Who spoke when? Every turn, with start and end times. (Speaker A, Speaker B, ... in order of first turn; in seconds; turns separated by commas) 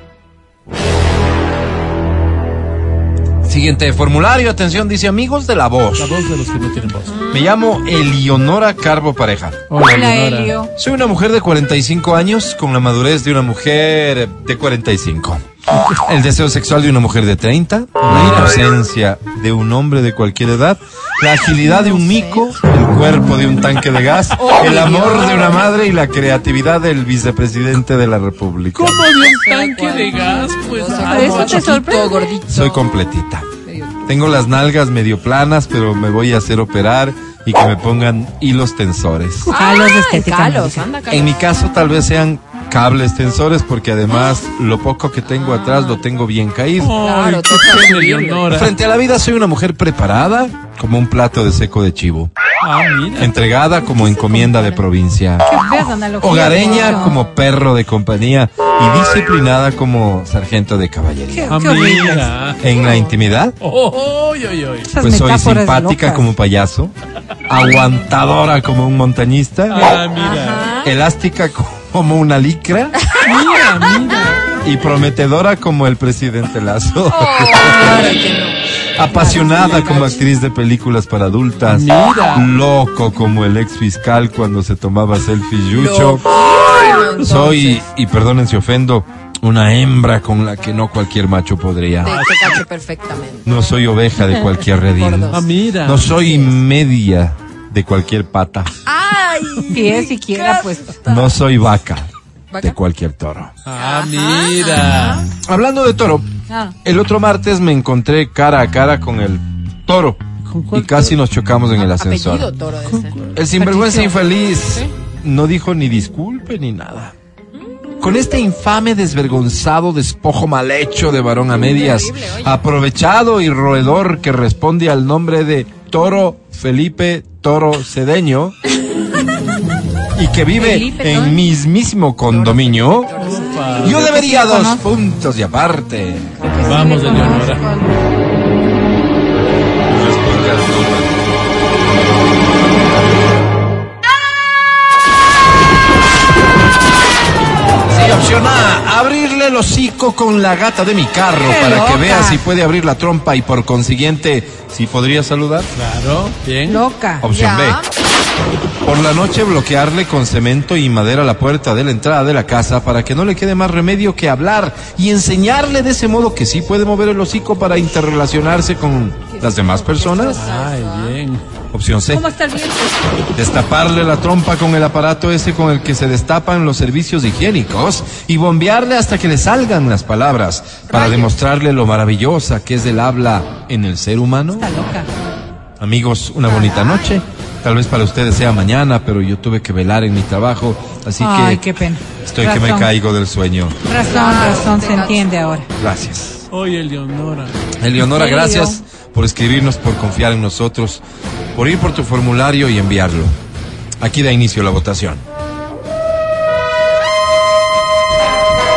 Speaker A: 3.4-6.1, Speaker B: 6.0-7.2, Speaker C: 7.1-7.5, Speaker A: 7.3-9.6, Speaker B: 9.7-10.5, Speaker D: 9.8-10.7, Speaker A: 10.8-15.4, Speaker B: 15.7-16.0, Speaker A: 16.0-29.0, Speaker B: 18.0-18.6, Speaker C: 21.8-22.5, Speaker C: 24.4-25.7, Speaker B: 28.8-31.9, Speaker C: 29.1-33.1, Speaker D: 30.8-32.3, Speaker A: 32.5-33.5, Speaker C: 33.6-34.1, Speaker A: 34.1-39.5, Speaker D: 39.5-40.9, Speaker C: 39.5-41.5, Speaker A: 41.1-46.9, Speaker C: 45.2-46.0, Speaker B: 46.8-48.7, Speaker C: 47.0-48.5, Speaker A: 48.5-52.3, Speaker B: 52.6-53.4, Speaker A: 53.2-55.6, Speaker D: 53.7-54.8, Speaker D: 55.5-57.2, Speaker A: 56.2-61.5, Speaker C: 56.6-57.3, Speaker D: 61.3-62.3, Speaker B: 61.5-62.9, Speaker A: 62.6-63.6, Speaker B: 63.6-64.9, Speaker D: 64.9-66.3, Speaker A: 65.0-66.9, Speaker A: 67.5-70.0, Speaker B: 69.7-70.8, Speaker C: 70.2-70.9, Speaker A: 70.8-73.0, Speaker B: 73.2-74.5, Speaker A: 74.6-78.1, Speaker C: 77.0-80.3, Speaker A: 79.0-86.2, Speaker B: 79.3-80.1, Speaker B: 81.7-82.5, Speaker C: 85.7-87.8, Speaker A: 87.2-92.2, Speaker C: 92.0-93.5, Speaker B: 92.1-92.6, Speaker A: 93.5-98.7, Speaker C: 94.9-95.5, Speaker B: 95.3-96.1, Speaker C: 96.1-96.6, Speaker C: 98.9-101.3, Speaker D: 99.7-101.0, Speaker A: 101.0-103.5, Speaker C: 102.5-102.8, Speaker B: 103.7-105.3, Speaker C: 103.7-105.3, Speaker A: 105.4-106.3, Speaker D: 106.5-106.8, Speaker A: 106.8-110.2, Speaker B: 110.5-111.2, Speaker A: 110.7-112.5, Speaker C: 111.8-113.3, Speaker B: 112.9-113.3, Speaker A: 113.3-117.1, Speaker D: 113.6-114.2, Speaker C: 114.5-114.9, Speaker A: 118.0-128.6, Speaker C: 121.5-122.6, Speaker A: 130.2-133.1, Speaker C: 130.5-131.5, Speaker C: 132.2-134.2, Speaker B: 133.2-134.1, Speaker D: 133.6-134.8, Speaker A: 133.8-136.4, Speaker D: 136.4-138.0, Speaker B: 136.6-137.7, Speaker A: 139.9-141.1, Speaker A: 147.9-155.7, Speaker D: 151.4-152.4, Speaker B: 155.7-156.8, Speaker D: 156.7-157.3, Speaker A: 157.2-157.8, Speaker C: 157.3-158.0, Speaker A: 158.8-170.4, Speaker C: 169.4-171.2, Speaker B: 170.3-171.4, Speaker A: 171.7-172.3, Speaker D: 172.1-173.0, Speaker A: 173.3-184.8, Speaker C: 180.9-181.3, Speaker D: 184.5-185.1, Speaker A: 185.8-193.8, Speaker C: 186.5-187.2, Speaker D: 191.2-192.9, Speaker D: 193.8-195.7, Speaker C: 194.1-195.5, Speaker A: 195.8-196.5, Speaker B: 196.5-197.6, Speaker A: 197.8-201.0, Speaker D: 198.1-198.8, Speaker A: 201.5-203.3, Speaker A: 204.0-205.2